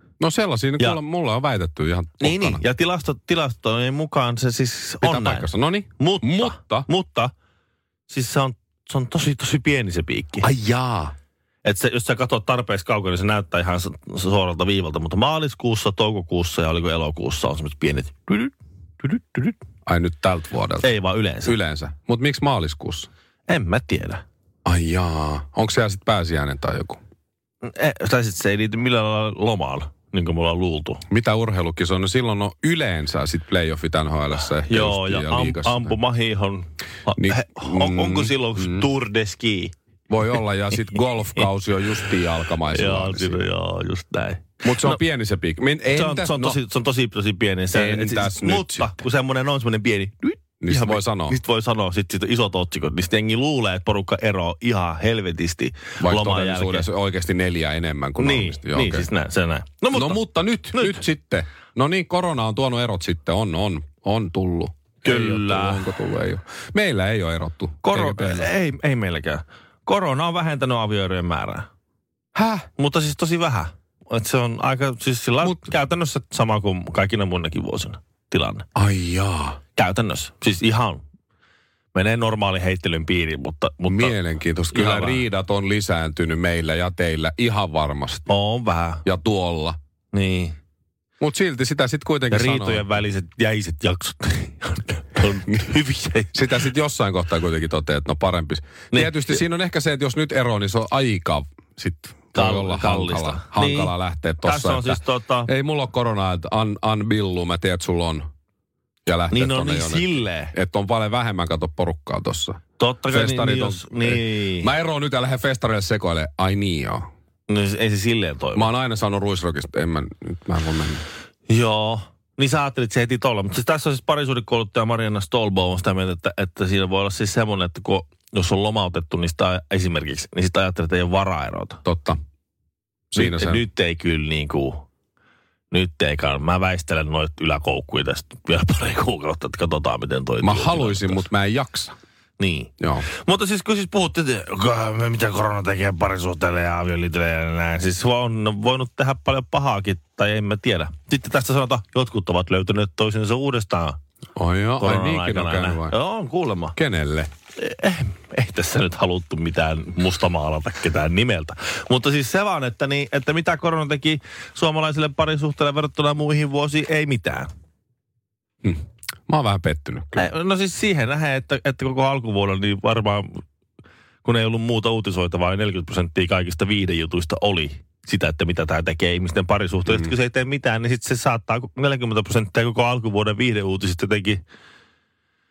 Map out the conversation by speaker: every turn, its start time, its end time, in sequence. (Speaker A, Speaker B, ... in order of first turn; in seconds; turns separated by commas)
Speaker A: 0.2-2.6, Speaker B: 2.2-7.3, Speaker A: 5.0-6.9, Speaker B: 8.1-10.5, Speaker A: 10.4-11.1, Speaker B: 11.6-19.5, Speaker A: 19.9-23.1, Speaker B: 20.8-21.5, Speaker B: 23.5-24.2, Speaker A: 24.6-27.0, Speaker B: 27.6-31.0, Speaker A: 31.1-36.0, Speaker B: 34.6-39.7, Speaker A: 37.1-38.9, Speaker A: 40.1-43.4, Speaker B: 42.7-45.0, Speaker A: 44.6-46.6, Speaker B: 45.9-56.9, Speaker A: 47.7-48.9, Speaker A: 50.6-51.4, Speaker A: 56.0-59.1, Speaker B: 58.2-61.0, Speaker A: 59.9-68.5, Speaker B: 65.0-65.8, Speaker B: 67.8-71.7, Speaker A: 72.3-72.7, Speaker B: 72.8-78.7, Speaker A: 78.7-79.6, Speaker B: 79.8-81.0, Speaker B: 81.9-84.2, Speaker A: 83.9-88.3, Speaker B: 84.7-85.2, Speaker B: 88.3-89.0, Speaker A: 89.0-89.8, Speaker B: 90.1-90.6, Speaker A: 91.2-92.8, Speaker B: 92.3-96.4, Speaker A: 96.3-108.3, Speaker B: 98.9-99.4, Speaker B: 102.3-105.5, Speaker A: 109.0-117.1, Speaker B: 109.3-110.5, Speaker B: 112.8-114.7, Speaker B: 117.5-118.7, Speaker A: 118.5-121.0, Speaker B: 121.5-131.8, Speaker A: 131.8-132.2, Speaker A: 133.1-133.6, Speaker B: 133.1-134.8, Speaker B: 135.7-141.2, Speaker A: 140.4-141.9, Speaker B: 142.4-154.0, Speaker A: 142.8-143.1, Speaker A: 154.3-155.9, Speaker B: 154.8-156.8, Speaker A: 156.8-157.3, Speaker B: 157.6-167.5, Speaker A: 168.6-170.3, Speaker B: 170.2-173.4, Speaker B: 174.2-184.4, Speaker A: 179.9-180.1